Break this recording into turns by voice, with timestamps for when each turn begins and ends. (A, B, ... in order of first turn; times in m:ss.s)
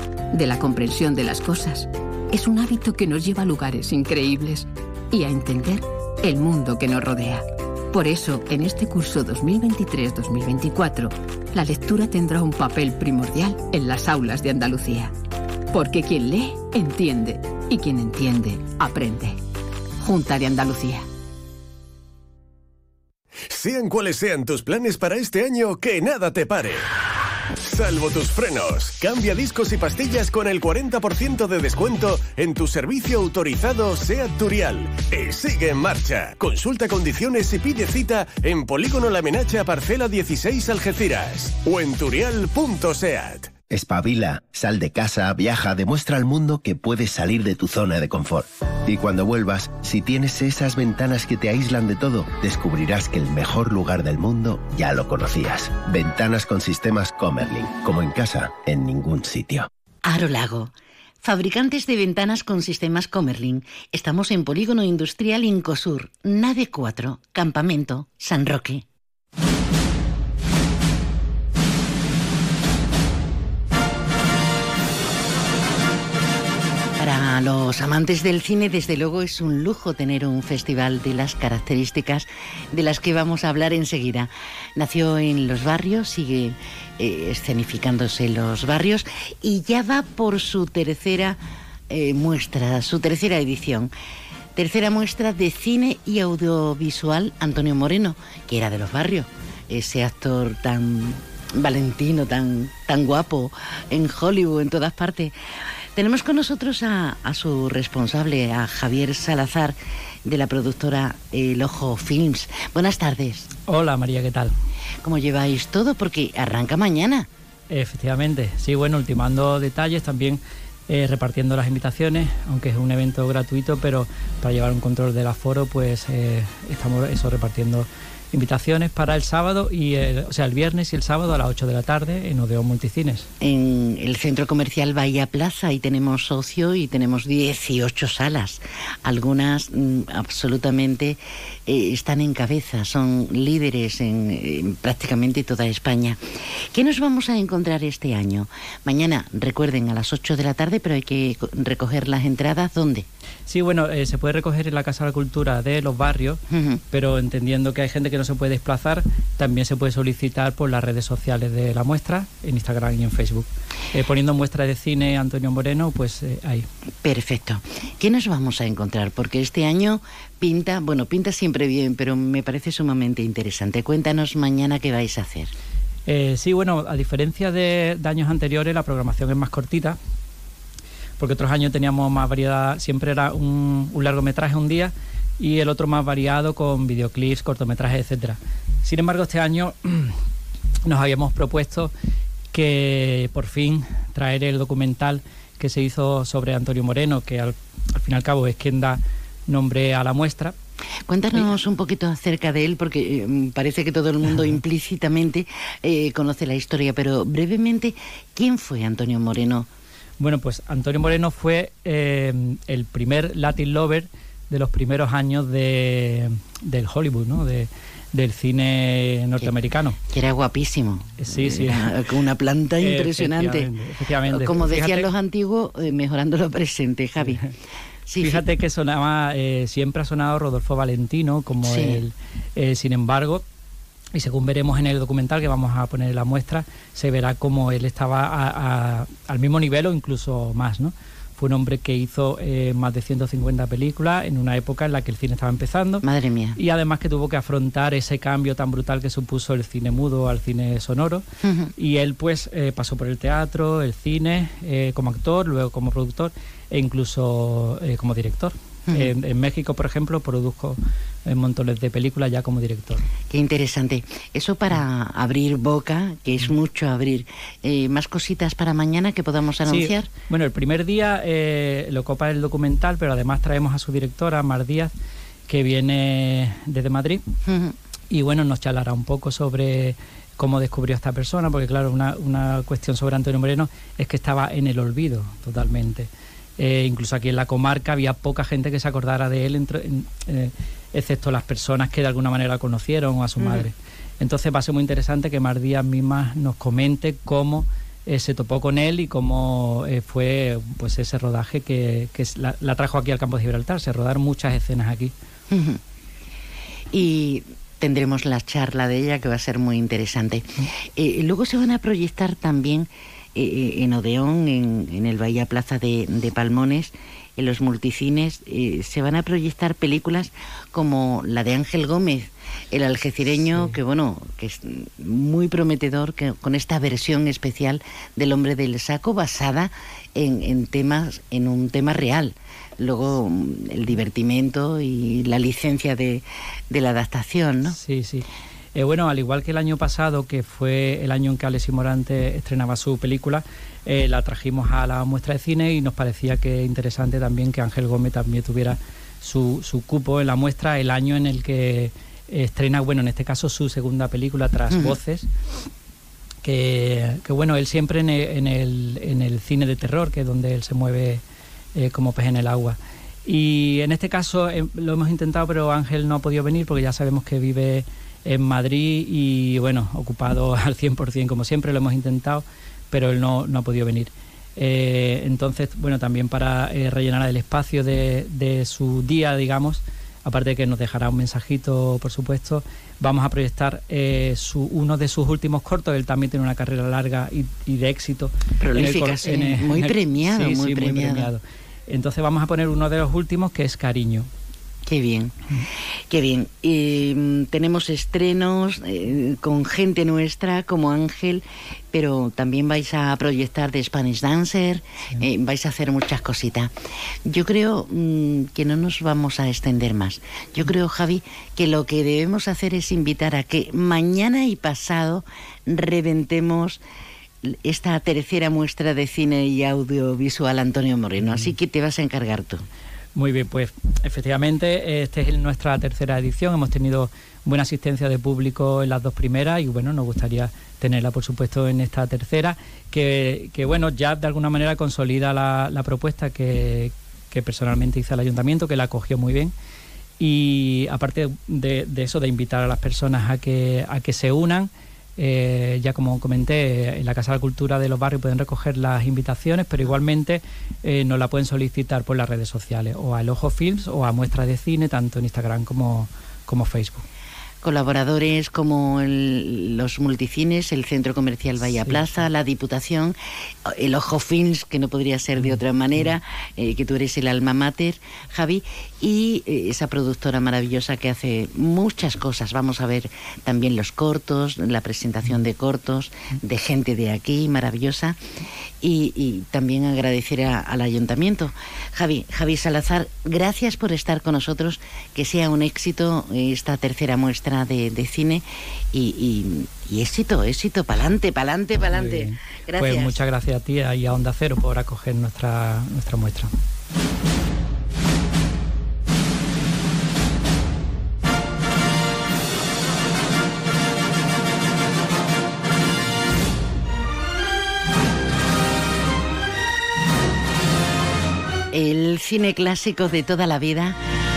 0:00.3-0:15.1 A
0:15.7-0:19.4 A
0:20.0-0:21.1 A
0:23.5-0:26.8 B
0:27.6-0:43.5 B
0:43.7-0:59.7 C
1:00.0-1:08.8 D
1:17.0-1:33.9 D
1:34.6-1:45.4 D
1:46.0-1:53.5 D
1:53.7-1:54.5 E
1:55.0-1:57.3 D
1:57.7-2:13.3 E
2:13.4-2:33.1 D
2:33.5-2:46.7 E
2:36.5-2:36.8 D
2:47.0-2:55.5 D
2:56.1-3:00.0 E
3:01.2-3:10.2 E
3:10.9-3:11.9 E
3:12.5-3:20.6 E
3:21.1-3:29.7 D
3:30.2-3:40.0 E
3:40.1-3:43.7 D
3:41.2-3:41.9 E
3:42.8-3:45.1 E
3:44.3-3:47.5 D
3:48.1-3:48.4 D
3:48.2-3:53.4 E
3:51.6-3:52.0 D
3:54.1-4:06.0 E
4:06.0-4:06.6 D
4:06.6-4:11.2 E
4:11.4-4:11.7 D
4:11.8-4:23.0 E
4:23.3-4:30.1 D
4:29.7-4:34.9 E
4:35.5-4:37.2 E
4:37.4-4:37.8 D
4:38.1-5:05.1 E
4:53.4-4:53.7 D
5:05.5-5:05.8 D
5:06.9-5:37.8 D
5:37.7-5:55.3 E
5:54.7-5:55.0 D
5:56.4-6:01.2 E
6:01.8-6:34.3 E
6:28.6-6:31.3 D
6:34.9-6:35.4 D
6:36.1-6:46.7 D
6:47.2-6:56.8 D
6:57.4-7:02.6 D
7:03.2-7:19.5 E
7:20.2-7:37.0 E
7:37.6-7:58.2 D
7:41.8-7:42.2 E
7:58.8-8:13.2 D
8:11.9-8:16.5 E
8:31.7-8:34.0 D